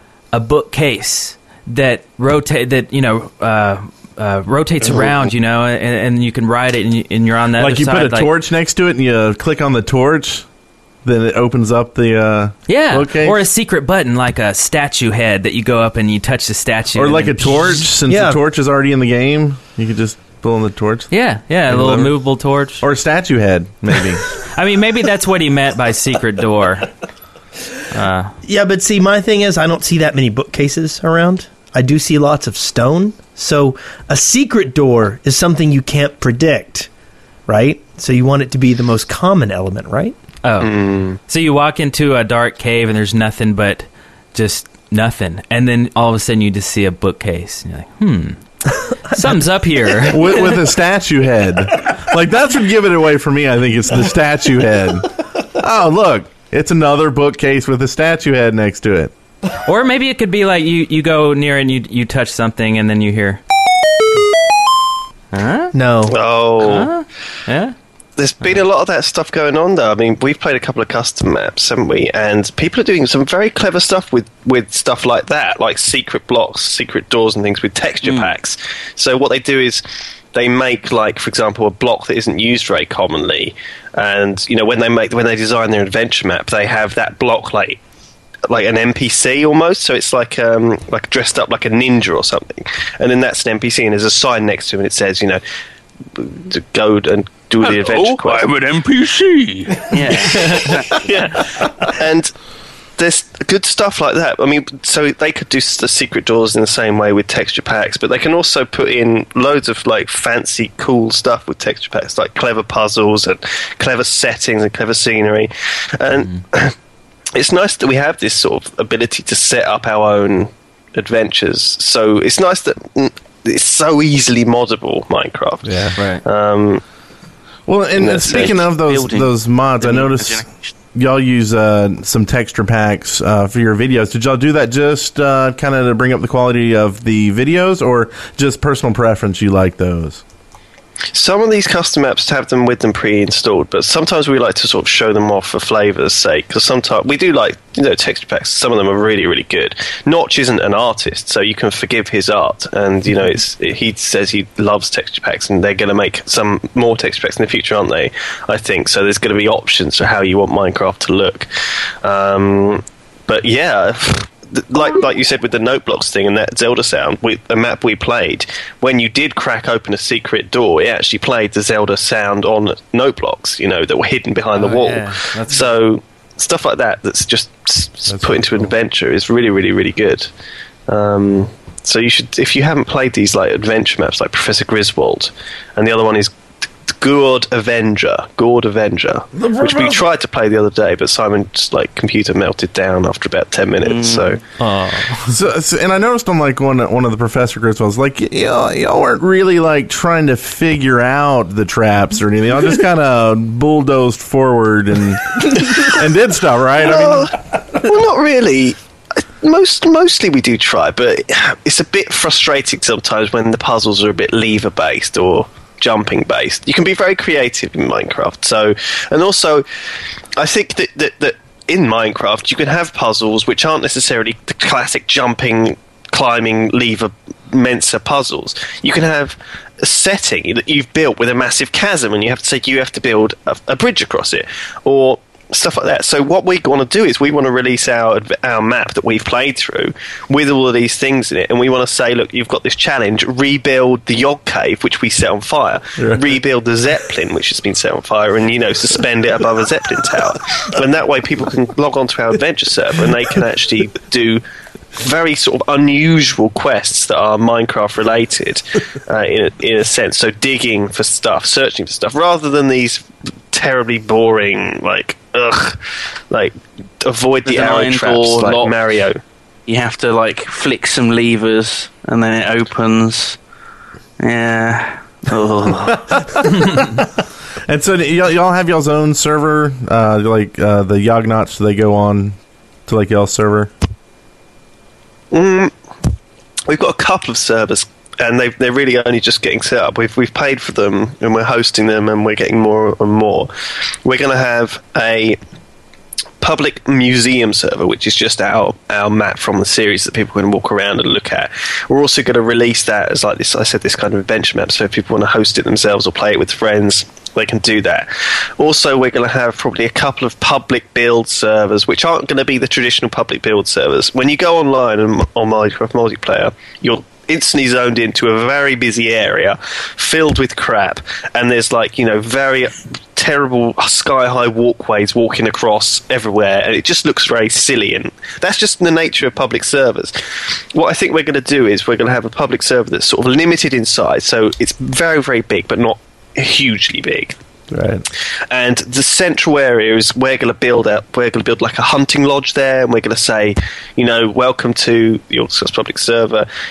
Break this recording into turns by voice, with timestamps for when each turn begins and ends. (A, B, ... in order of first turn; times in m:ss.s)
0:00.3-0:08.3 A
0:07.6-0:10.4 B
0:11.0-0:13.4 B
0:12.7-0:17.8 A
0:16.9-0:21.1 B
0:18.1-0:18.4 C
0:21.1-0:22.8 A
0:21.7-0:22.2 B
0:22.8-0:24.3 B
0:24.4-0:26.9 A
0:27.9-0:28.3 A
0:28.4-0:36.9 C
0:37.5-0:40.1 C
0:40.4-0:50.6 A
0:40.6-0:41.2 D
0:50.1-0:59.1 B
0:59.6-1:03.4 A
1:05.3-1:05.7 A
1:05.7-1:06.2 C
1:06.1-1:06.9 D
1:06.6-1:07.7 A
1:08.2-1:27.8 D
1:18.0-1:18.3 E
1:28.5-1:35.4 D
1:36.1-1:38.4 D
1:37.6-1:41.1 E
1:40.2-1:42.3 D
1:43.0-1:56.7 D
1:57.3-2:06.8 D
2:05.6-2:06.0 B
2:06.0-2:06.2 A
2:07.7-2:20.2 B
2:08.0-2:08.7 D
2:08.3-2:10.7 E
2:21.1-2:41.5 D
2:42.0-3:00.3 D
2:54.5-2:55.7 A
2:58.1-2:58.7 B
3:00.9-3:06.3 D
3:06.9-3:14.4 D
3:09.4-3:10.0 B
3:13.8-3:14.4 E
3:14.6-3:15.2 A
3:15.2-3:27.3 B
3:26.8-3:39.6 D
3:40.4-4:14.4 D
4:06.0-4:06.4 B
4:15.0-4:25.8 D
4:26.3-4:29.2 D
4:27.4-4:28.8 E
4:29.7-4:33.4 E
4:34.2-4:36.2 E
4:36.1-4:37.0 B
4:37.6-4:43.7 B
4:45.3-4:45.7 D
4:46.7-4:53.5 D
4:54.0-4:55.4 D
4:56.4-5:30.2 D
5:30.7-5:37.4 D
5:37.7-5:38.0 B
5:38.5-5:46.5 D